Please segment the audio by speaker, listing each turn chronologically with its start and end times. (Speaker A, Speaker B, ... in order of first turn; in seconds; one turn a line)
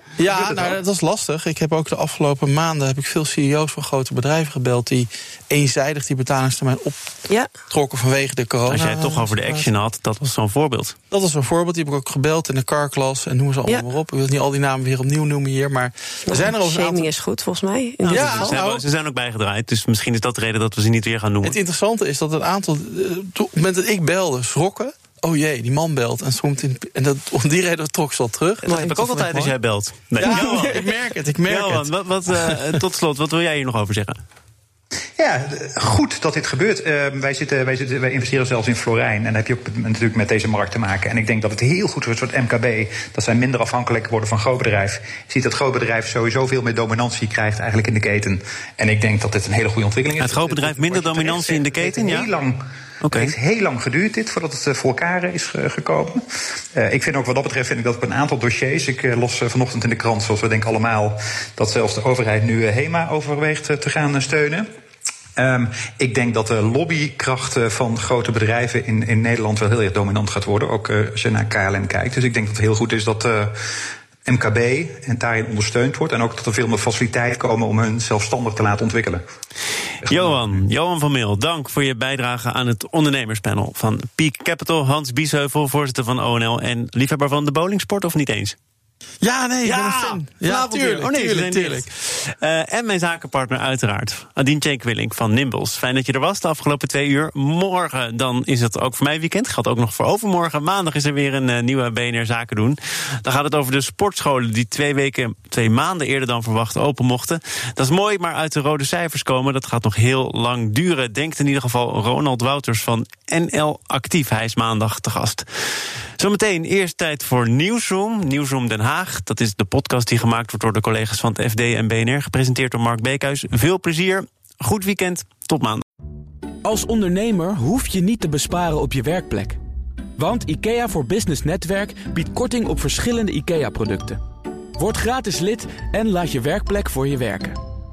Speaker A: 0.2-7.1
Speaker B: 0.3-0.7
Speaker A: 7.7-9.7
Speaker B: 8.7-10.9
Speaker A: 11.1-17.1
Speaker C: 16.3-18.6
Speaker B: 18.0-21.6
Speaker A: 18.1-18.8
Speaker A: 21.4-29.5
Speaker B: 28.6-30.9
Speaker C: 28.6-28.9
Speaker A: 30.2-32.8
Speaker C: 30.2-30.7
Speaker B: 31.5-34.2
Speaker D: 35.2-64.7
Speaker B: 50.2-52.3
Speaker B: 53.0-53.3
Speaker D: 65.3-73.5
Speaker D: 74.2-79.2
Speaker D: 80.0-80.6
Speaker B: 80.0-88.5
Speaker A: 89.2-91.9
Speaker B: 89.6-125.8
Speaker E: 126.6-129.6
Speaker E: 130.2-134.2
Speaker E: 134.8-137.6